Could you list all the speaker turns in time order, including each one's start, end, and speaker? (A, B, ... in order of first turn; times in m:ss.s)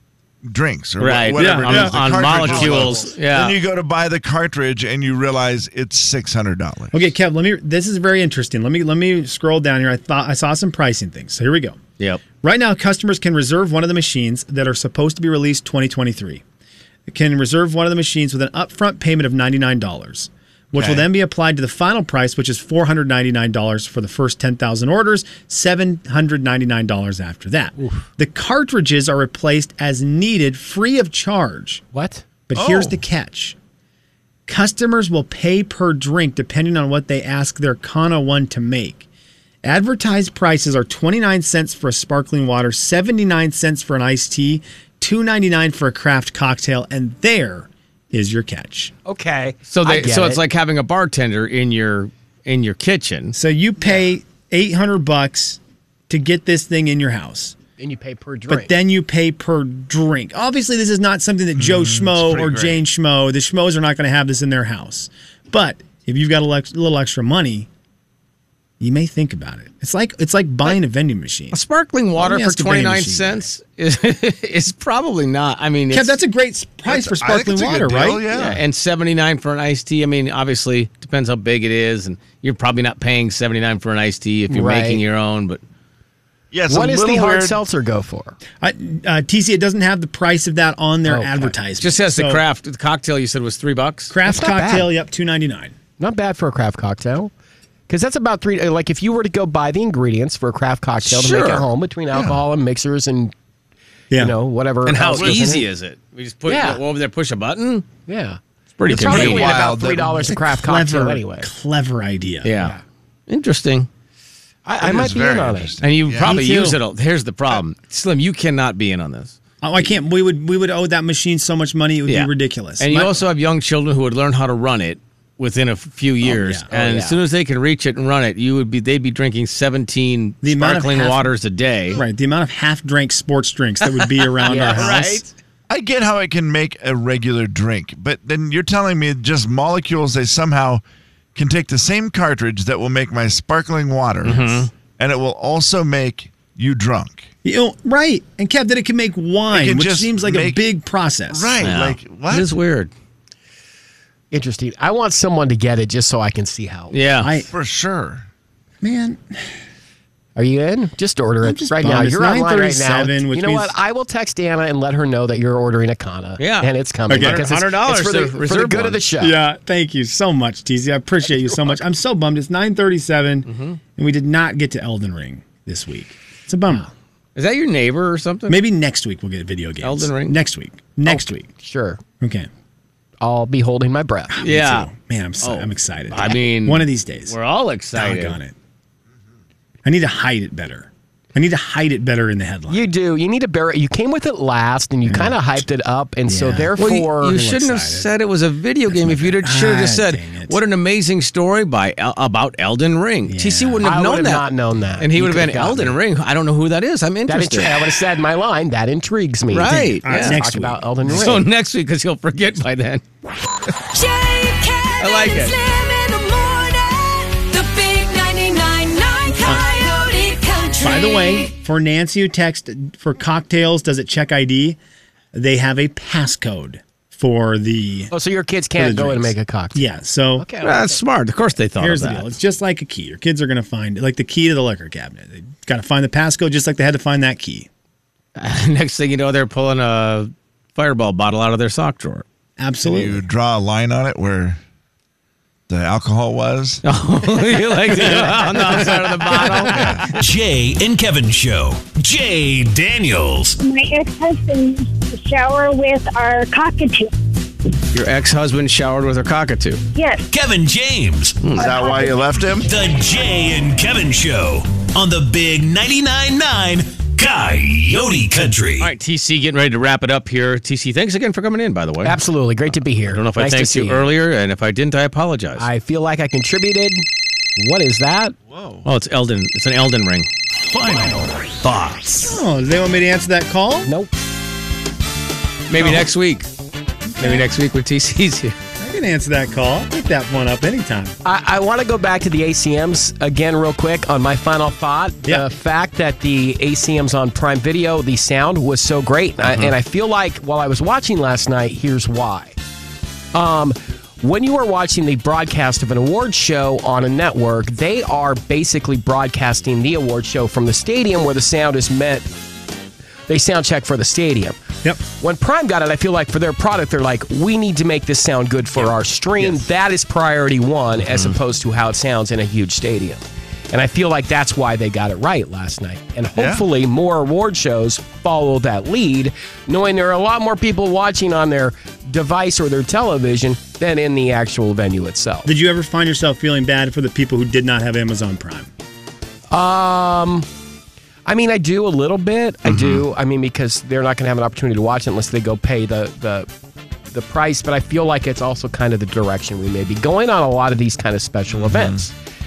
0:00.4-0:07.0 A
0:01.0-0:03.6 B
0:01.3-0:03.1 C
0:06.9-0:11.8 C
0:12.4-0:16.4 C
0:17.1-0:31.8 C
0:31.9-0:32.2 D
0:32.5-0:33.6 C
0:32.5-0:32.9 A
0:34.5-0:39.0 C
0:39.6-0:48.9 C
0:49.0-0:50.4 D
0:49.7-0:53.3 B
0:53.3-0:57.6 C
0:57.8-0:58.7 D
0:58.5-1:07.7 C
1:01.6-1:02.8 A
1:08.8-1:11.6 C
1:11.5-1:16.2 B
1:12.2-1:13.5 C
1:15.9-1:18.3 C
1:16.9-1:18.6 A
1:18.3-1:25.6 B
1:24.5-1:25.0 D
1:26.5-1:27.6 A
1:26.7-1:28.4 D
1:28.6-1:32.4 C
1:31.1-1:31.5 D
1:31.8-1:34.1 B
1:34.1-1:35.7 C
1:34.3-1:34.9 D
1:36.0-1:37.3 D
1:37.9-1:43.3 D
1:41.0-1:41.6 B
1:42.1-1:42.4 A
1:44.2-1:45.6 D
1:44.8-1:47.8 B
1:46.5-1:46.8 D
1:48.1-1:51.5 D
1:48.8-1:49.6 B
1:48.9-1:50.4 A
1:50.4-1:52.5 C
1:52.4-1:52.8 B
1:53.3-1:53.9 B
1:54.6-1:55.7 D
1:54.8-1:56.4 A
1:55.8-1:59.4 B
1:56.2-1:56.8 C
1:59.6-2:03.2 C
2:02.1-2:12.0 B
2:06.2-2:06.6 C
2:06.7-2:07.2 D
2:10.4-2:11.3 C
2:11.9-2:15.2 C
2:14.4-2:15.3 B
2:14.5-2:15.2 D
2:15.7-2:20.8 A
2:21.3-2:27.3 A
2:24.2-2:24.7 B
2:27.4-2:31.7 C
2:29.5-2:30.6 A
2:31.3-2:32.5 A
2:31.6-2:32.9 B
2:34.3-2:36.9 D
2:36.9-2:37.3 B
2:37.2-2:37.5 C
2:37.5-2:38.2 A
2:38.8-2:39.5 C
2:40.4-2:49.4 D
2:41.4-2:43.8 C
2:46.4-2:49.0 B
2:47.1-2:48.6 C
2:49.2-2:56.9 C
2:53.5-2:53.8 B
2:57.4-2:58.6 B
2:58.5-3:01.5 C
2:59.8-3:00.3 B
3:01.0-3:02.0 D
3:02.2-3:02.5 C
3:03.2-3:04.3 D
3:04.3-3:07.4 C
3:04.4-3:04.9 B
3:05.4-3:08.4 B
3:07.9-3:08.5 C
3:09.8-3:12.9 C
3:12.7-3:17.4 D
3:15.0-3:15.6 C
3:16.3-3:18.1 C
3:16.8-3:24.5 B
3:18.9-3:20.6 C
3:23.2-3:23.9 C
3:23.8-3:26.0 D
3:25.0-3:28.0 B
3:27.3-3:31.4 D
3:29.5-3:30.4 B
3:30.0-3:31.4 C
3:31.1-3:33.0 B
3:33.8-3:41.5 E
3:35.0-3:35.5 B
3:40.8-3:44.8 C
3:45.3-3:48.1 C
3:48.1-3:51.0 D
3:48.8-3:50.5 C
3:50.6-3:52.3 B
3:51.8-3:57.7 C
3:58.4-4:02.2 B
4:02.6-4:03.2 C
4:02.8-4:04.6 A
4:05.7-4:06.8 A
4:06.8-4:10.1 B
4:07.3-4:09.6 D
4:10.0-4:13.6 F
4:13.6-4:17.1 G
4:17.9-4:19.8 B
4:19.9-4:20.2 G
4:20.3-4:21.5 F
4:21.4-4:21.7 B
4:21.5-4:22.7 A
4:21.6-4:22.1 G
4:22.6-4:28.9 F
4:28.8-4:32.2 B
4:32.0-4:34.1 D
4:33.1-4:35.6 B
4:35.6-4:37.0 D
4:37.6-4:38.3 D
4:38.5-4:38.8 A
4:38.8-4:40.3 B
4:40.5-4:42.4 F
4:42.2-4:43.9 C
4:43.8-4:44.1 D
4:45.7-4:46.5 B
4:45.8-4:46.0 C
4:47.2-4:47.4 C
4:47.2-4:48.6 B
4:48.8-4:51.2 C
4:51.2-5:02.6 D
4:59.4-4:59.7 B
5:03.3-5:12.3 D
5:13.3-5:35.5 D
5:26.4-5:26.6 A
5:35.4-5:38.7 C
5:39.5-5:40.5 D
5:41.2-5:46.5 D
5:42.6-5:43.0 A
5:47.1-5:52.1 D
5:51.5-5:52.0 A